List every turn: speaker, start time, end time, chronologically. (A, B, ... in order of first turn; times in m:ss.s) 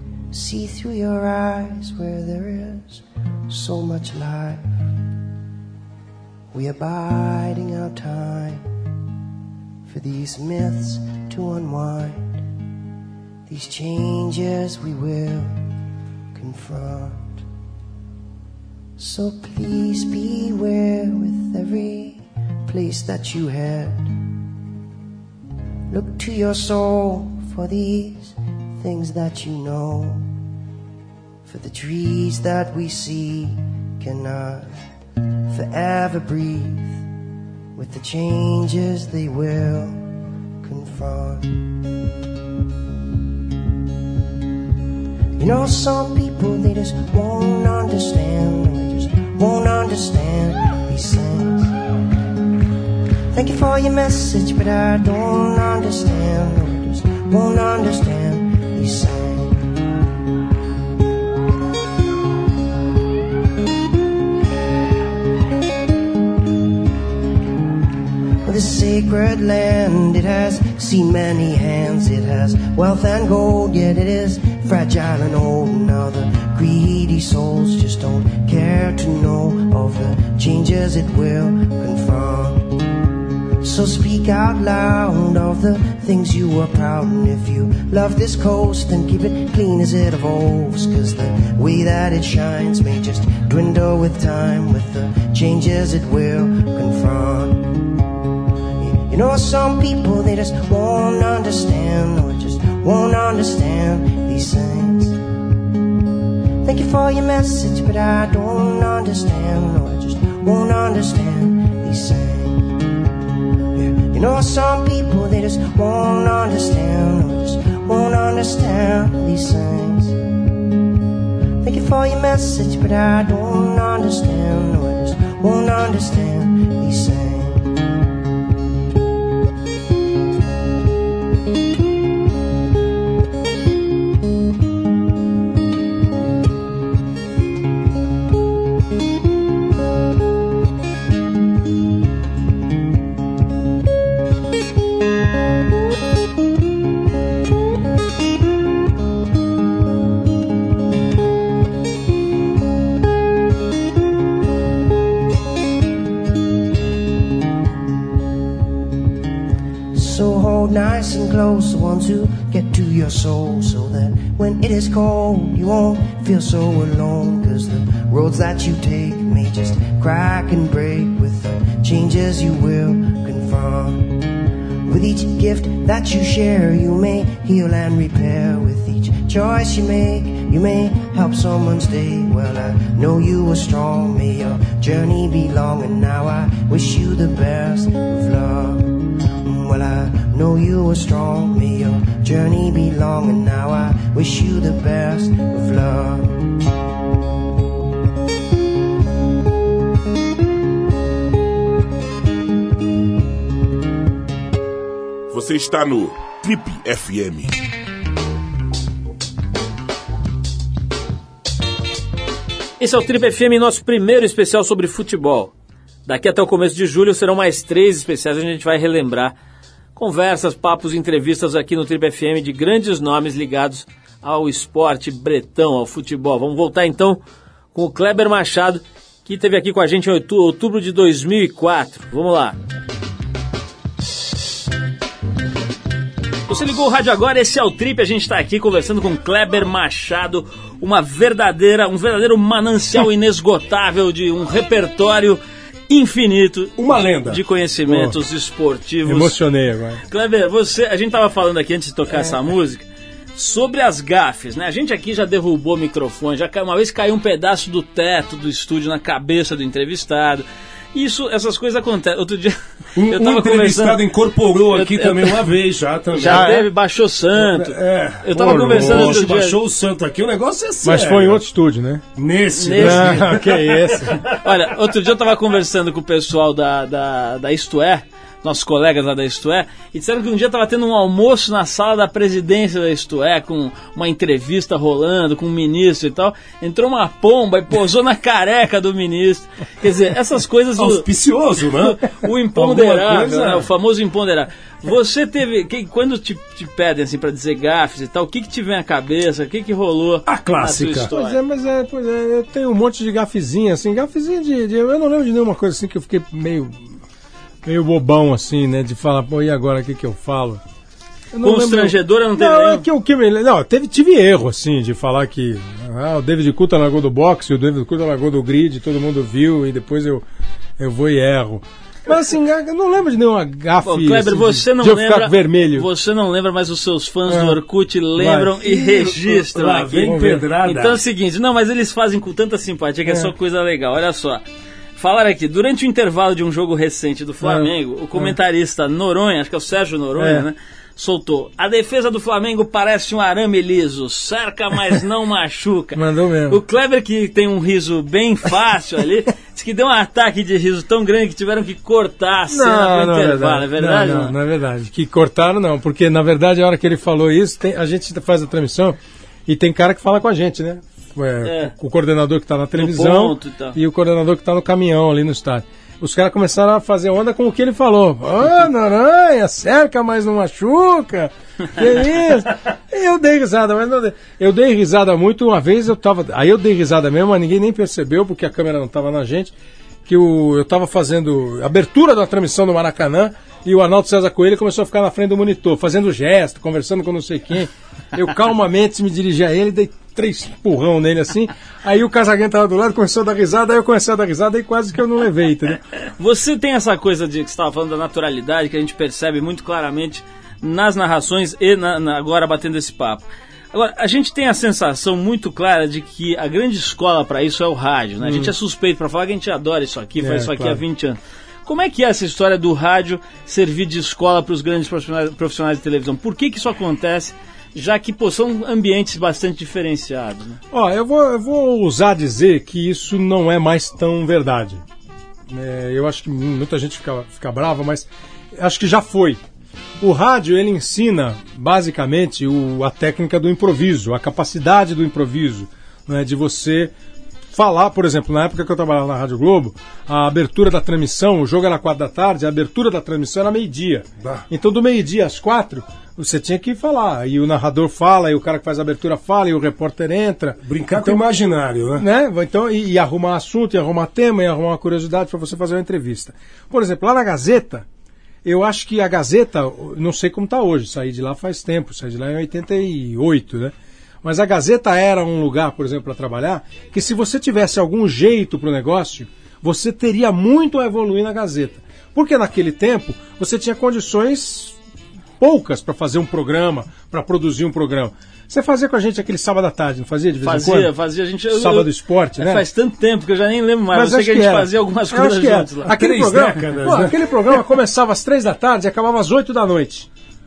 0:00.3-0:04.7 A
0:06.5-0:08.7 A
0:09.9-0:12.4 A
0:13.5-0:15.6 A
0:16.3-0:17.4 A
0:19.0-0:24.1 A
0:25.9-0:30.3 A
0:31.5-0:34.7 A
0:35.5-0:37.0 A
0:37.8-0:40.0 A
0:40.6-0:41.5 A
0:45.4-0:51.7 A
0:53.3-0:59.6 A
1:08.4-1:22.8 A
1:23.6-1:37.8 A
1:38.8-1:45.2 A
1:46.6-1:52.8 A
1:53.8-2:00.2 A
2:01.6-2:07.7 A
2:39.9-2:54.2 A
2:54.9-3:16.5 A
3:25.3-3:27.5 B
3:32.8-3:35.5 C
3:36.1-3:39.4 C
3:40.0-3:47.2 C
3:47.7-3:52.6 C
3:56.5-4:09.4 C
4:06.8-4:07.4 D
4:07.9-4:08.2 E
4:09.0-4:10.0 E
4:10.1-4:24.1 C
4:23.0-4:26.7 D
4:24.6-4:25.5 C
4:26.2-4:29.6 C
4:27.3-4:31.4 D
4:28.4-4:29.2 E
4:30.8-4:32.0 E
4:32.2-4:34.2 D
4:32.6-4:33.3 C
4:32.8-4:34.2 E
4:34.2-4:51.1 C
4:50.8-4:53.7 D
4:52.0-5:01.4 C
5:00.2-5:01.1 D
5:01.1-5:06.9 E
5:07.6-5:10.6 E
5:11.3-5:20.2 E
5:11.4-5:12.9 C
5:20.8-5:25.9 E
5:23.8-5:34.4 C
5:27.3-5:27.6 E
5:28.2-5:28.6 E
5:28.7-5:31.0 D
5:30.0-5:30.5 E
5:35.0-5:54.4 C
5:37.4-5:38.3 E
5:40.2-5:40.5 E
5:46.0-5:46.6 E
5:52.5-6:19.5 E
6:01.4-6:01.7 C
6:02.8-6:03.8 C
6:20.1-6:35.8 E
6:36.2-7:00.6 C
6:48.2-6:48.5 E
6:50.2-6:50.8 E
7:00.7-7:04.8 E
7:05.5-7:09.4 E
7:10.0-7:16.9 E
7:17.5-7:31.2 E
7:24.2-7:24.5 D
7:30.6-7:32.0 D
7:32.0-7:37.9 E
7:38.4-7:54.8 E
7:55.4-8:00.9 E
8:00.4-8:05.9 C
8:01.5-8:02.6 E
8:03.9-8:10.1 E
8:05.9-8:07.2 D